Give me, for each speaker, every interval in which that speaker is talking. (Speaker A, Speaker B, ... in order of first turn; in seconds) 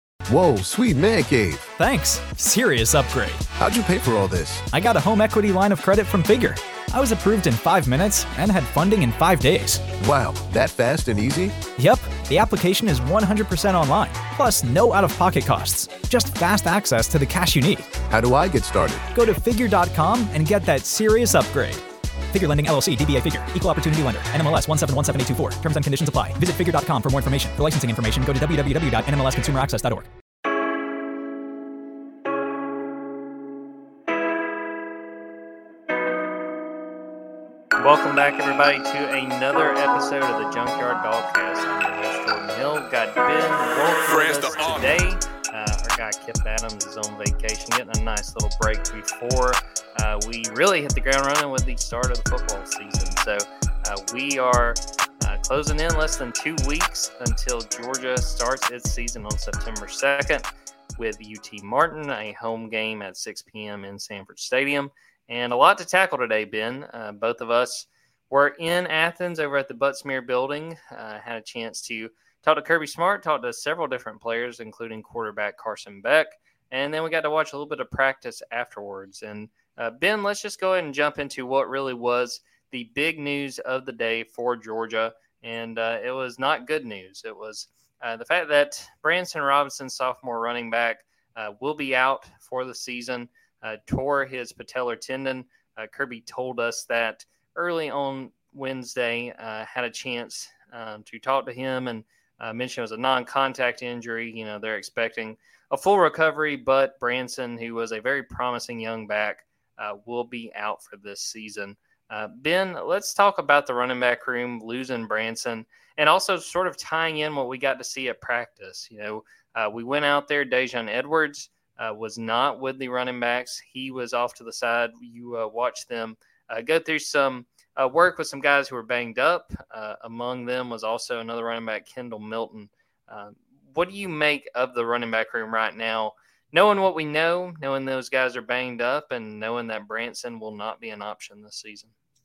Speaker A: 0.3-1.7, 3.6-4.7, 9.9-11.6, 18.1-19.1
Speaker B: 1.8-3.4, 4.7-9.9, 11.8-17.9, 19.1-30.1
Speaker C: 37.8-60.5, 61.0-141.9